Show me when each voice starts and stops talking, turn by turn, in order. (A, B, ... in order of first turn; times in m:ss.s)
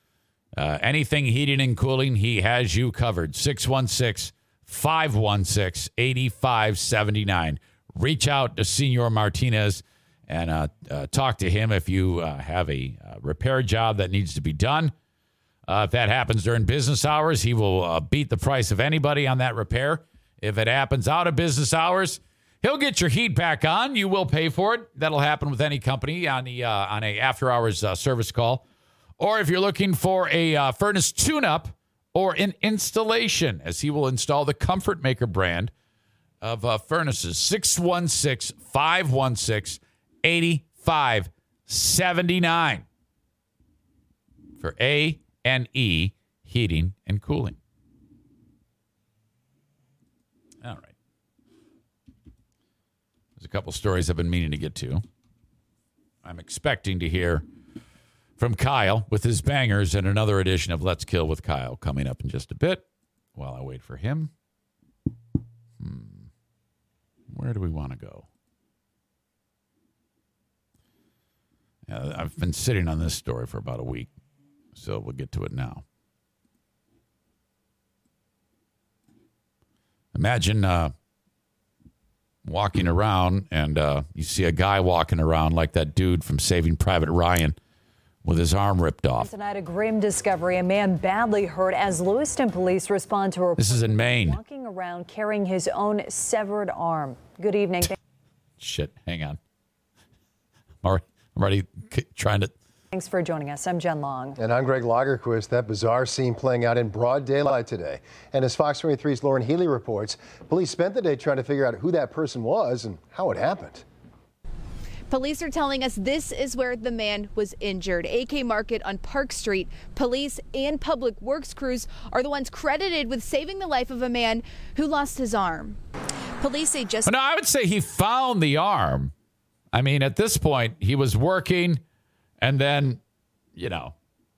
0:00.6-0:14.9 A
0:15.7-0:28.6 A
0:29.2-0:35.7 A
0:36.4-0:42.9 A
0:44.6-0:47.6 A
0:50.6-0:50.9 A
0:53.4-0:55.0 A
0:56.2-0:57.4 A
0:58.4-1:02.8 A
1:03.4-1:04.3 A
1:05.8-1:06.3 A
1:07.3-1:08.3 A
1:11.9-1:14.1 A
1:14.8-1:15.8 A
1:20.2-1:20.9 A
1:22.4-1:27.6 A
1:28.2-1:29.3 A
1:29.2-1:38.0 B
1:33.6-1:34.4 A
1:38.6-1:39.4 A
1:40.8-1:42.5 A
1:42.9-1:44.4 B
1:44.4-1:53.8 C
1:55.1-2:05.8 D
2:06.4-2:07.1 D
2:07.1-2:09.1 A
2:09.7-2:11.8 A
2:12.4-2:13.0 A
2:13.6-2:13.9 A